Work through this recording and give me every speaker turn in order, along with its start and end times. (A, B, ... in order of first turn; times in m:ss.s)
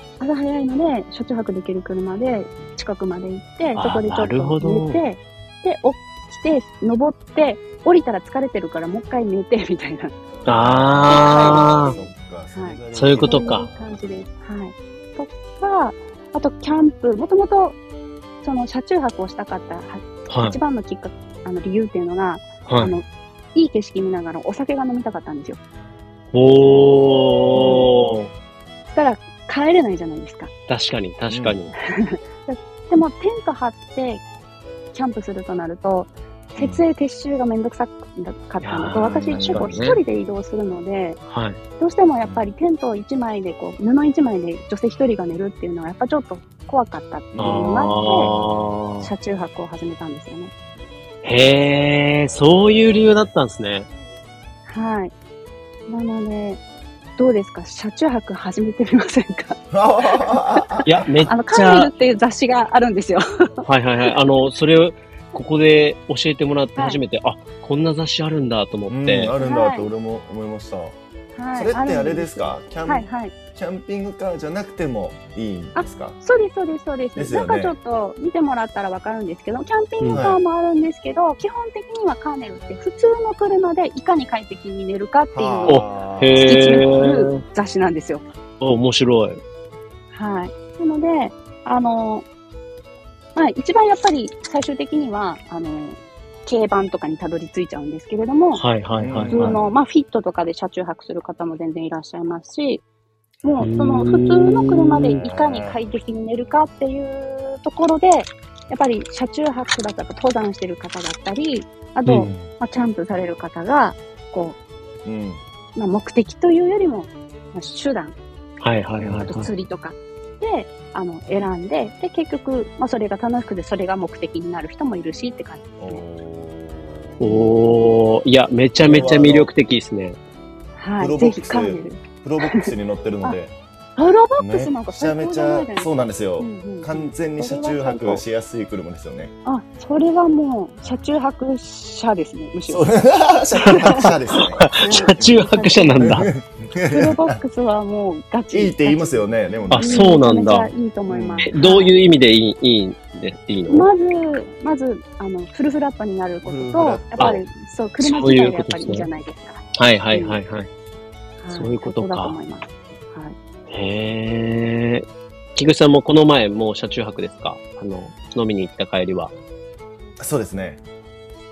0:00.2-0:10.2 A
0:03.8-0:05.0 B
0:10.3-0:14.0 C
0:10.4-0:11.9 B
0:11.1-0:17.8 A
0:12.9-0:13.6 B
0:18.4-0:25.6 A
0:20.3-0:20.6 B
0:22.6-0:23.0 B
0:26.3-0:28.3 B
0:27.5-0:27.9 A
0:28.9-0:30.5 A
0:30.7-0:31.7 B
0:31.3-0:31.6 C
0:31.9-0:34.2 A
0:34.9-0:41.2 A
0:36.6-0:36.8 C
0:38.6-0:40.0 B
0:38.9-0:39.8 C
0:41.3-0:41.6 B
0:41.8-0:48.3 A
0:42.2-0:42.5 C
0:47.3-0:48.7 C
0:47.4-0:49.1 B
0:49.0-0:50.5 A
0:51.2-0:53.9 B
0:54.7-0:55.1 A
0:55.9-0:56.6 A
0:57.2-0:59.6 A
0:59.7-1:01.0 C
1:00.2-1:03.6 A
1:00.8-1:01.9 B
1:03.6-1:09.3 B
1:08.9-1:11.0 C
1:09.4-1:09.9 A
1:11.3-1:13.3 A
1:11.5-1:16.2 C
1:15.7-1:25.8 A
1:17.2-1:17.8 C
1:20.1-1:20.4 C
1:25.3-1:26.9 C
1:25.7-1:27.4 B
1:26.4-1:28.2 A
1:28.6-1:29.4 B
1:30.1-1:32.2 A
1:33.3-1:38.6 A
1:38.6-1:39.6 B
1:39.0-1:39.7 C
1:39.3-1:42.8 A
1:43.4-1:43.7 C
1:43.4-1:54.6 A
1:43.6-1:45.2 B
1:45.2-1:45.8 C
1:52.2-1:52.5 C
1:55.0-1:55.4 C
1:55.7-1:58.2 A
1:58.6-1:59.5 B
1:59.0-1:59.3 C
1:59.2-2:06.0 A
2:05.8-2:07.4 C
2:07.2-2:10.2 B
2:08.8-2:09.5 C
2:10.8-2:12.0 A
2:11.0-2:13.5 C
2:14.0-2:18.2 A
2:14.4-2:19.3 C
2:19.4-2:23.0 A
2:22.7-2:27.4 C
2:23.6-2:24.1 A
2:24.6-2:26.3 B
2:24.7-2:26.0 A
2:26.9-2:32.0 A
2:28.5-2:30.3 C
2:29.7-2:30.7 B
2:31.1-2:31.5 C
2:31.4-2:33.9 B
2:33.7-2:40.4 A
2:36.4-2:37.4 C
2:38.0-2:39.1 B
2:39.7-2:40.7 B
2:41.4-2:43.3 A
2:41.5-2:42.4 B
2:43.7-2:49.3 B
2:50.2-2:50.8 C